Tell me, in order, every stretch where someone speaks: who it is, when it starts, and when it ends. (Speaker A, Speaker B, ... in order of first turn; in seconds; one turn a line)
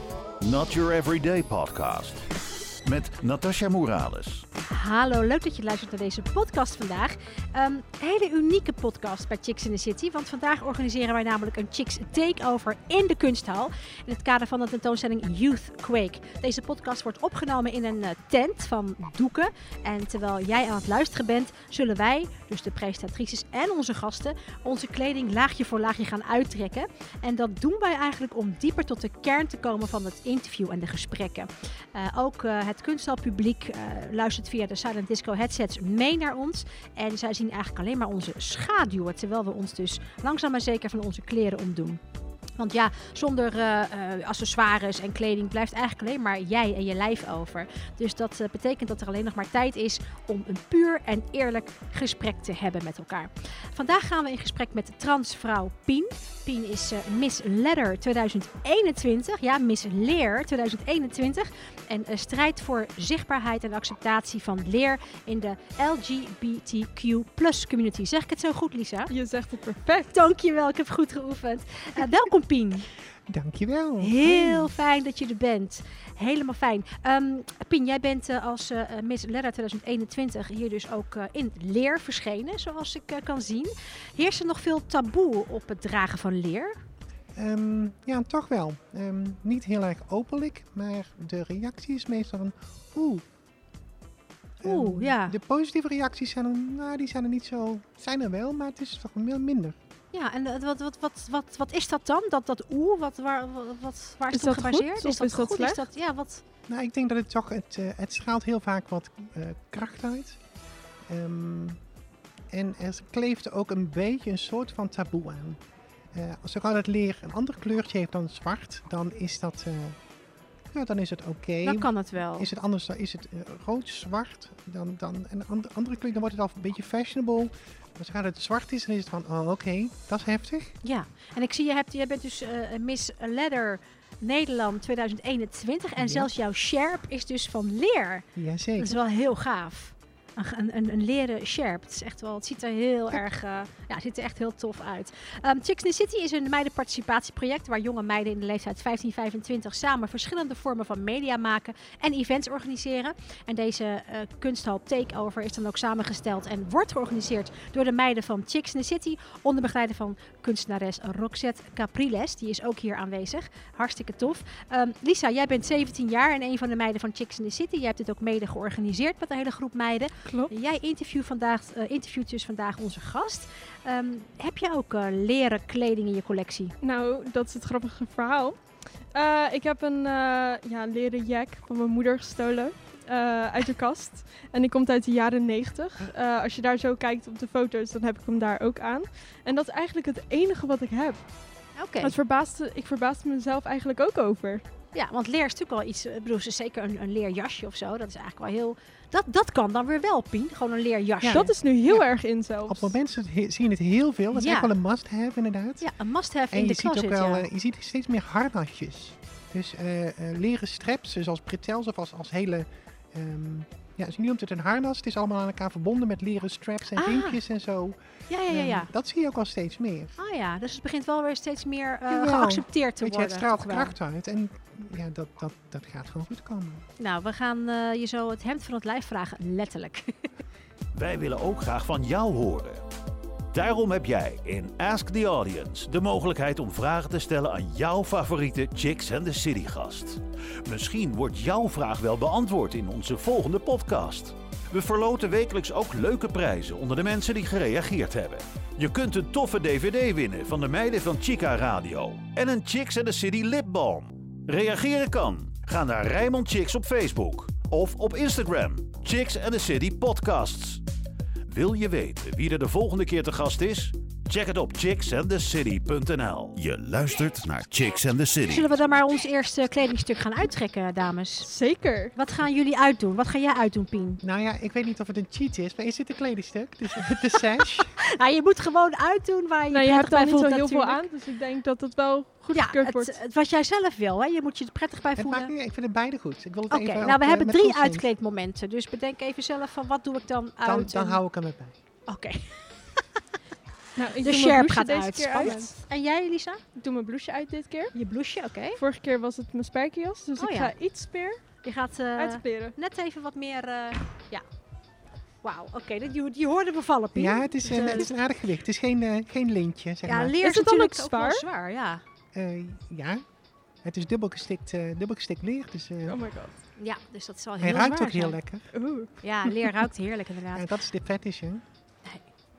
Speaker A: 0.4-2.3
Speaker A: 2.8-4.4
Speaker B: 4.6-42.0
Speaker B: 42.6-69.1
Speaker C: 69.1-70.1
Speaker B: 70.1-72.9
Speaker D: 73.3-74.7
Speaker B: 74.0-86.8
Speaker D: 87.3-93.2
Speaker D: 94.6-99.8
Speaker B: 94.6-95.4
Speaker B: 100.1-106.4
Speaker C: 104.3-105.8
Speaker D: 106.7-110.4
Speaker D: 111.1-111.8
Speaker D: 112.5-115.6
Speaker D: 116.1-120.0
Speaker D: 120.7-130.8
Speaker B: 121.6-122.5
Speaker B: 130.8-176.7
Speaker D: 136.0-136.3
Speaker D: 138.3-139.0
Speaker C: 170.2-170.5
Speaker C: 176.8-191.2
Speaker B: 191.8-192.1
Speaker C: 192.0-194.6
Speaker B: 194.9-201.5
Speaker D: 201.2-202.0
Speaker C: 201.3-202.9
Speaker D: 202.7-205.9
Speaker B: 204.3-204.7
Speaker B: 205.8-207.4
Speaker D: 206.5-220.2
Speaker B: 216.9-217.4
Speaker B: 218.3-218.9
Speaker B: 220.2-223.9
Speaker D: 222.1-226.8
Speaker B: 227.0-230.3
Speaker A: 230.9-232.8
Speaker A: 233.5-260.8
Speaker A: 261.5-268.7
Speaker B: 268.4-271.5
Speaker C: 271.4-272.1
Speaker B: 272.1-274.2
Speaker D: 274.2-277.9
Speaker B: 277.8-281.0
Speaker C: 279.7-283.1
Speaker B: 282.5-285.5
Speaker D: 285.1-288.1
Speaker B: 286.7-291.2
Speaker D: 290.6-291.8
Speaker B: 292.1-293.0
Speaker C: 293.9-295.8
Speaker B: 294.2-296.6
Speaker C: 296.7-297.9
Speaker B: 297.9-298.8
Speaker C: 298.8-301.4
Speaker B: 300.4-300.7
Speaker B: 301.6-304.4
Speaker C: 302.2-302.7
Speaker B: 305.4-308.1
Speaker D: 307.1-310.4
Speaker B: 310.1-312.0
Speaker C: 310.4-311.4
Speaker D: 312.3-313.2
Speaker D: 313.8-316.2
Speaker C: 316.1-316.5
Speaker B: 316.8-318.4
Speaker D: 317.6-318.6
Speaker C: 318.7-319.7
Speaker B: 319.2-320.7
Speaker D: 320.5-321.6